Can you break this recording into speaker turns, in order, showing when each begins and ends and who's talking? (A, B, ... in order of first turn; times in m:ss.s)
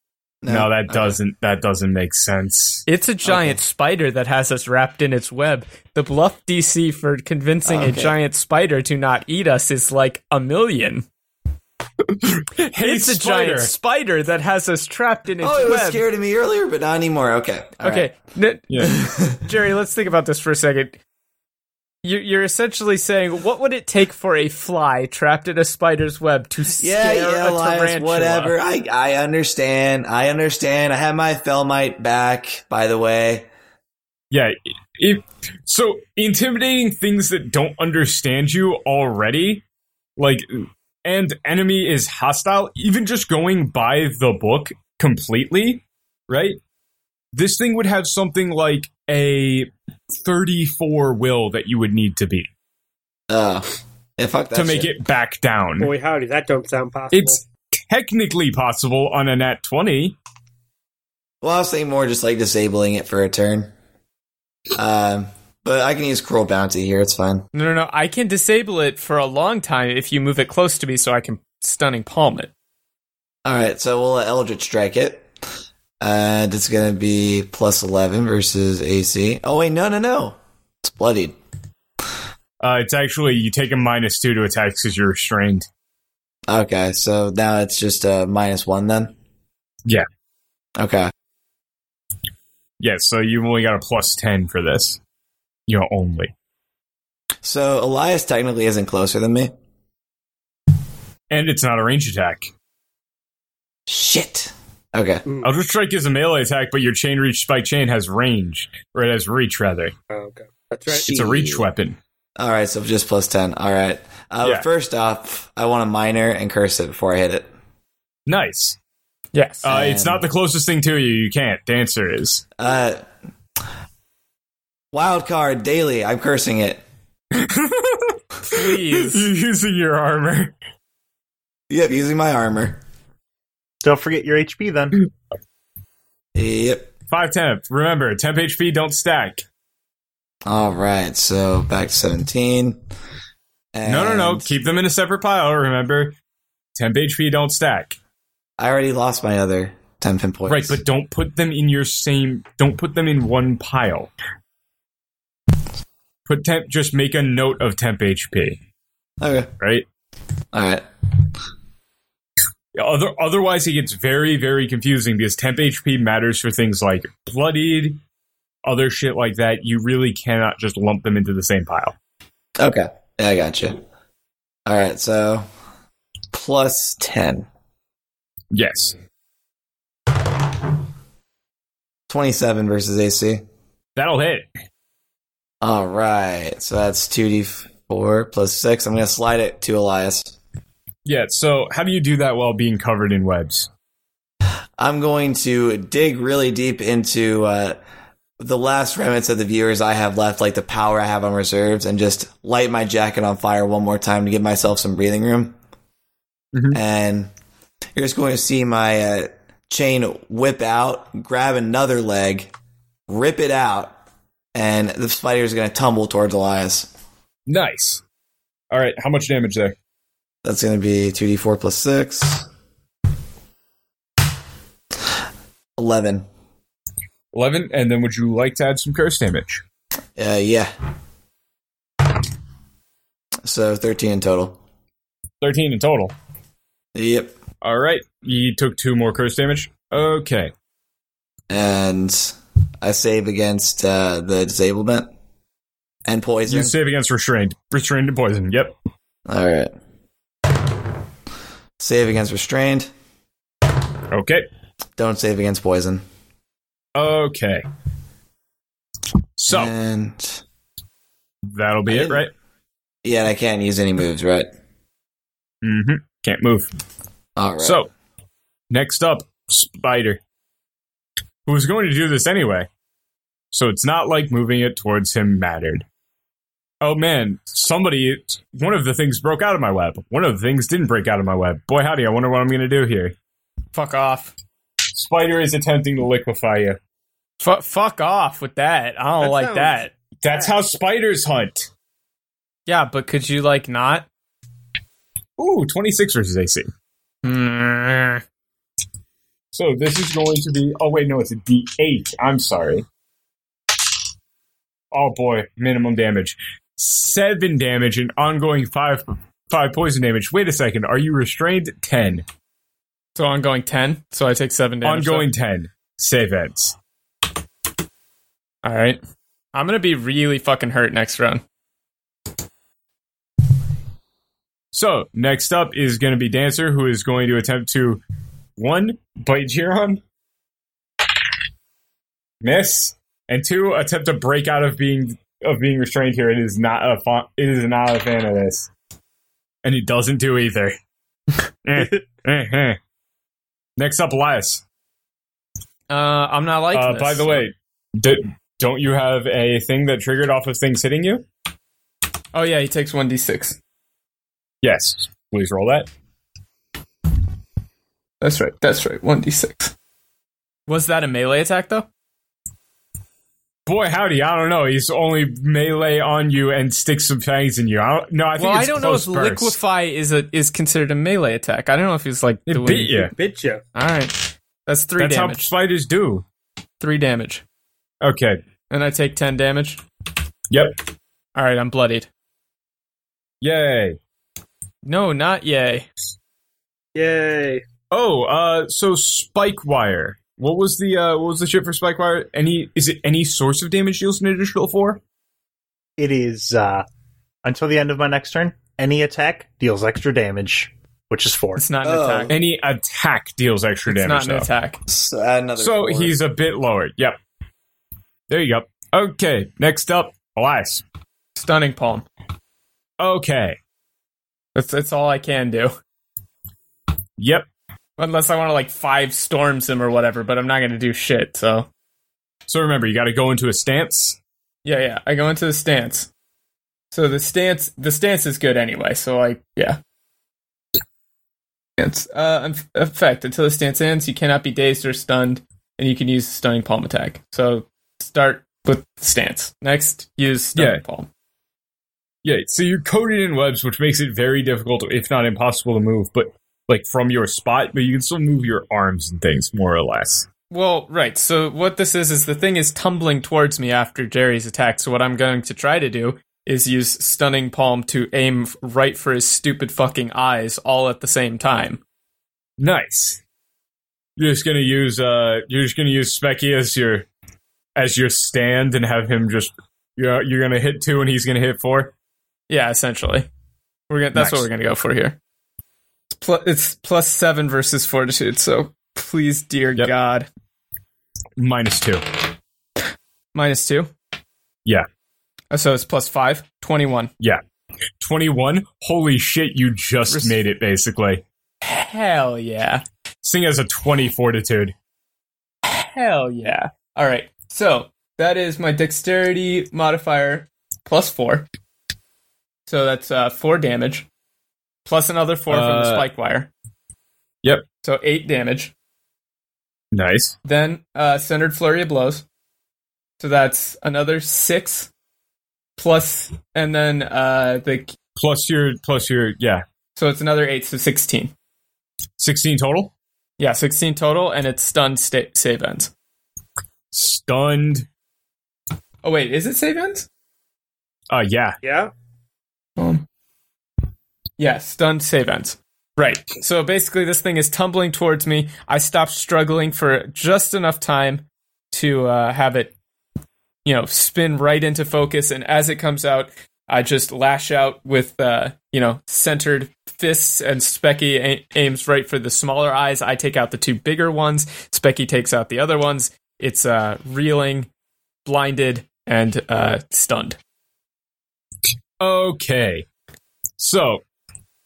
0:00.4-0:01.2 A
0:00.5-0:02.8 B
0:02.9-0:11.1 C
0:03.2-0:03.6 A
0:07.6-0:08.2 A
0:12.2-0:13.7 B
0:12.8-0:16.0 C
0:15.4-0:18.1 A
0:17.8-0:21.0 C
0:18.7-0:19.0 B
0:18.8-0:19.4 A
0:22.0-0:28.5 C
0:26.8-0:33.5 A
0:34.3-0:39.6 B
0:40.2-0:46.6 B
0:47.3-0:52.5 B
0:53.3-0:53.7 A
0:54.2-0:54.9 A
0:54.6-0:55.9 B
0:55.8-0:57.4 D
0:57.1-1:00.2 B
1:01.4-1:03.7 A
1:04.7-1:07.5 A
1:07.5-1:12.5 C
1:13.4-1:15.3 A
1:16.0-1:21.4 A
1:22.6-1:25.7 B
1:26.5-1:29.2 A
1:30.8-1:31.1 A
1:32.8-1:35.0 B
1:35.7-1:36.3 B
1:37.4-1:39.5 A
1:41.3-1:42.5 B
1:43.9-1:45.2 A
1:45.3-1:45.5 D
1:45.4-1:49.9 B
1:50.1-1:51.1 D
1:51.0-1:52.0 B
1:51.1-1:51.7 A
1:52.4-1:57.5 A
1:58.3-1:58.8 B
1:59.3-1:59.6 C
1:59.6-2:02.4 B
1:59.6-2:00.2 A
2:02.6-2:03.0 A
2:04.9-2:06.8 A
2:07.3-2:10.5 B
2:08.4-2:09.3 C
2:11.7-2:12.8 A
2:13.8-2:15.0 E
2:16.4-2:16.9 A
2:17.1-2:19.4 B
2:20.5-2:22.8 A
2:23.7-2:24.6 A
2:23.9-2:26.2 B
2:26.8-2:28.0 B
2:28.6-2:30.8 A
2:30.5-2:34.1 B
2:36.3-2:38.6 B
2:39.2-2:39.5 A
2:39.6-2:39.9 B
2:40.5-2:40.8 A
2:42.8-2:48.0 B
2:48.6-2:52.0 B
2:52.6-2:53.8 A
2:54.7-2:55.5 A
2:56.3-2:57.5 A
2:58.5-2:59.0 B
3:02.1-3:03.4 A
3:04.0-3:04.5 B
3:05.6-3:10.4 A
3:11.0-3:13.7 B
3:14.8-3:17.8 A
3:18.4-3:25.6 A
3:26.5-3:26.8 B
3:26.7-3:27.3 A
3:28.0-3:32.5 A
3:33.1-3:33.9 A
3:34.6-3:36.9 A
3:37.5-3:38.0 B
3:38.7-3:39.8 B
3:40.4-3:42.5 A
3:45.8-3:46.3 A
3:47.3-3:49.6 B
3:50.2-3:50.7 A
3:53.4-3:54.6 A
3:55.4-3:56.1 B
3:57.0-3:57.4 A
3:57.6-4:00.5 B
4:01.5-4:05.1 A
4:06.1-4:06.7 A
4:06.5-4:08.8 B
4:09.3-4:09.7 A
4:11.8-4:12.9 A
4:14.1-4:14.4 B
4:15.0-4:16.0 A
4:17.0-4:17.6 B
4:19.4-4:19.7 B
4:19.5-4:20.4 A
4:21.5-4:22.3 B
4:21.9-4:22.2 A
4:23.0-4:24.5 A
4:25.6-4:26.7 B
4:27.4-4:27.8 A
4:27.6-4:27.9 B
4:28.7-4:30.2 B
4:31.5-4:32.7 B
4:33.5-4:35.8 B
4:36.8-4:43.2 B
4:43.7-4:44.3 C
4:44.9-4:46.8 B
4:47.4-4:49.9 C
4:49.2-4:50.6 D
4:50.2-4:51.7 B
4:52.7-4:54.1 C
4:55.4-4:56.7 B
4:57.2-4:58.2 C
4:59.5-5:02.9 B
5:04.9-5:12.2 B
5:13.2-5:15.3 C
5:14.8-5:16.8 B
5:18.6-5:19.0 C
5:19.5-5:21.4 C
5:24.7-5:28.0 B
5:28.6-5:30.0 B
5:32.4-5:38.7 B
5:39.6-5:40.8 B
5:41.6-5:42.8 B
5:43.8-5:44.6 B
5:45.9-5:47.5 C
5:46.7-5:51.2 B
5:52.3-5:53.6 C
5:54.6-5:55.9 B
5:58.2-5:59.7 C
6:00.7-6:01.9 C
6:03.7-6:09.6 B
6:08.4-6:13.1 C
6:12.5-6:13.1 B
6:13.2-6:13.6 D
6:13.8-6:15.5 C
6:15.0-6:16.2 B
6:16.8-6:17.4 C
6:18.0-6:18.4 B
6:18.7-6:19.8 C
6:20.5-6:20.8 B
6:21.4-6:22.1 C
6:23.4-6:24.0 B
6:24.8-6:25.9 C
6:27.0-6:27.6 D
6:27.9-6:35.0 B
6:36.0-6:36.8 E
6:37.4-6:41.6 E
6:41.6-6:42.3 C
6:41.8-6:42.3 A
6:42.3-6:44.5 B
6:43.9-6:44.8 C
6:44.9-6:46.2 A
6:45.6-6:47.2 B
6:48.3-6:50.8 B
6:51.4-6:52.1 C
6:53.0-6:53.6 B
6:54.6-6:55.8 C
6:57.2-6:57.5 B
6:58.0-7:01.7 C
7:02.5-7:04.2 B
7:04.6-7:06.1 C
7:06.9-7:09.8 C
7:11.8-7:21.1 C
7:20.6-7:20.8 B
7:22.2-7:30.3 B
7:30.5-7:41.8 C
7:42.6-7:43.2 B
7:44.2-7:47.1 B
7:47.8-7:51.9 B
7:52.5-7:53.3 C
7:53.9-7:55.2 C
7:54.2-7:54.5 B
7:56.1-8:00.3 C
8:01.4-8:02.0 B
8:03.3-8:03.9 C
8:05.5-8:07.1 C
8:08.0-8:11.2 B
8:10.1-8:10.4 C
8:11.6-8:12.8 C
8:13.2-8:14.7 B
8:15.6-8:21.5 C
8:22.7-8:24.1 C
8:24.8-8:26.5 C
8:25.5-8:26.1 B
8:27.8-8:28.7 C
8:29.9-8:30.4 B
8:30.4-8:32.2 C
8:33.2-8:34.9 C
8:35.8-8:38.0 C
8:38.2-8:39.6 B
8:40.0-8:41.3 C
8:42.2-8:42.9 B
8:43.4-8:45.9 C
8:46.9-8:47.9 B
8:49.0-8:50.1 C
8:51.1-8:51.6 B
8:51.6-8:51.9 D
8:52.8-8:53.1 C
8:54.4-9:02.8 C
9:03.6-9:17.7 C
9:18.2-9:20.4 C
9:22.0-9:22.9 B
9:23.6-9:24.0 B